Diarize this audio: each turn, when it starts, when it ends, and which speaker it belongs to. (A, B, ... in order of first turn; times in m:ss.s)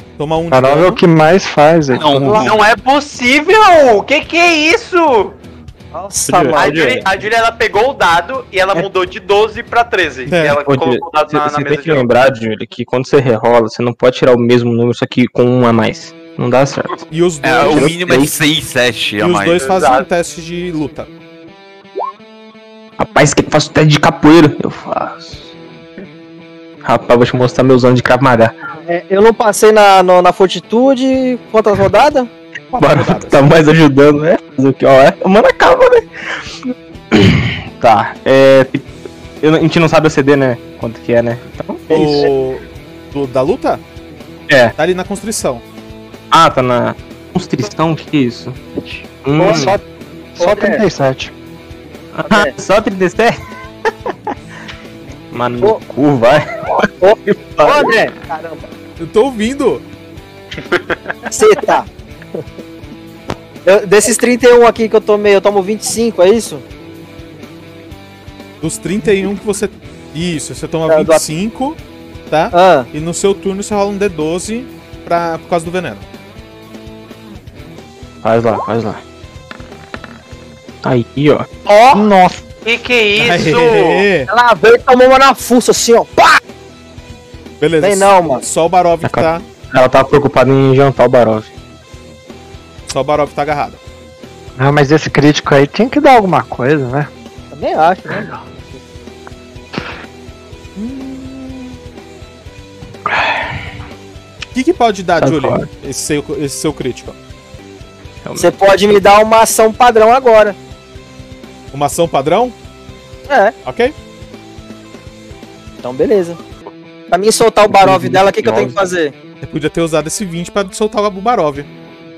0:00.2-0:01.0 A
0:00.5-0:02.0 B
0:01.9-0:02.6 C
0:02.2-0:02.5 D
0:02.4-0:05.4 E
0:05.9-0:07.0 D
0:06.2-0:07.0 F
0:06.6-0:12.1 E
0:10.3-0:10.6 A
0:10.6-0:17.0 F
0:17.1-0:18.0 A
0:17.4-0:19.7 C
0:17.6-0:18.3 F
0:19.2-0:21.1 A
0:19.6-0:20.1 E
0:23.0-0:25.5 F
0:26.8-0:28.5 F
0:28.9-0:32.3 D
0:32.7-0:33.5 A
0:32.8-0:36.0 F
0:37.1-0:38.9 F
0:39.4-0:42.3 F
0:41.9-0:42.3 D
0:41.9-0:43.8 A
0:44.5-0:44.7 F
0:44.8-0:45.6 A
0:46.3-0:48.6 F
0:49.2-0:49.7 F
0:49.4-0:49.8 D
0:49.4-0:49.8 B
0:50.4-0:51.3 B
0:50.4-0:50.8 D
0:52.1-0:53.4 F
0:52.2-0:52.5 D
0:55.3-0:57.9 F
0:57.0-0:58.7 D
0:59.0-0:59.8 A
1:00.6-1:01.2 E
1:01.3-1:01.9 D
1:03.6-1:06.6 D
1:08.6-1:11.8 A
1:10.9-1:11.2 D
1:12.3-1:16.0 A
1:12.5-1:12.9 D
1:18.2-1:19.0 F
1:20.8-1:21.5 F
1:21.6-1:22.1 E
1:21.9-1:22.4 B
1:22.6-1:24.0 E
1:23.2-1:24.3 A
1:24.3-1:26.4 D
1:27.6-1:29.4 A
1:27.8-1:28.4 D
1:29.0-1:31.5 F
1:32.9-1:33.8 A
1:34.6-1:37.1 B
1:37.5-1:38.8 D
1:40.8-1:41.8 A
1:43.1-1:43.5 F
1:44.5-1:47.2 A
1:45.2-1:45.6 F
1:48.2-1:48.5 F
1:48.4-1:50.6 D
1:51.7-1:52.5 A
1:53.3-1:53.5 D
1:53.6-1:53.9 A
1:55.8-1:56.4 D
1:57.1-1:59.1 D
1:57.7-1:58.8 F
1:59.4-2:01.7 A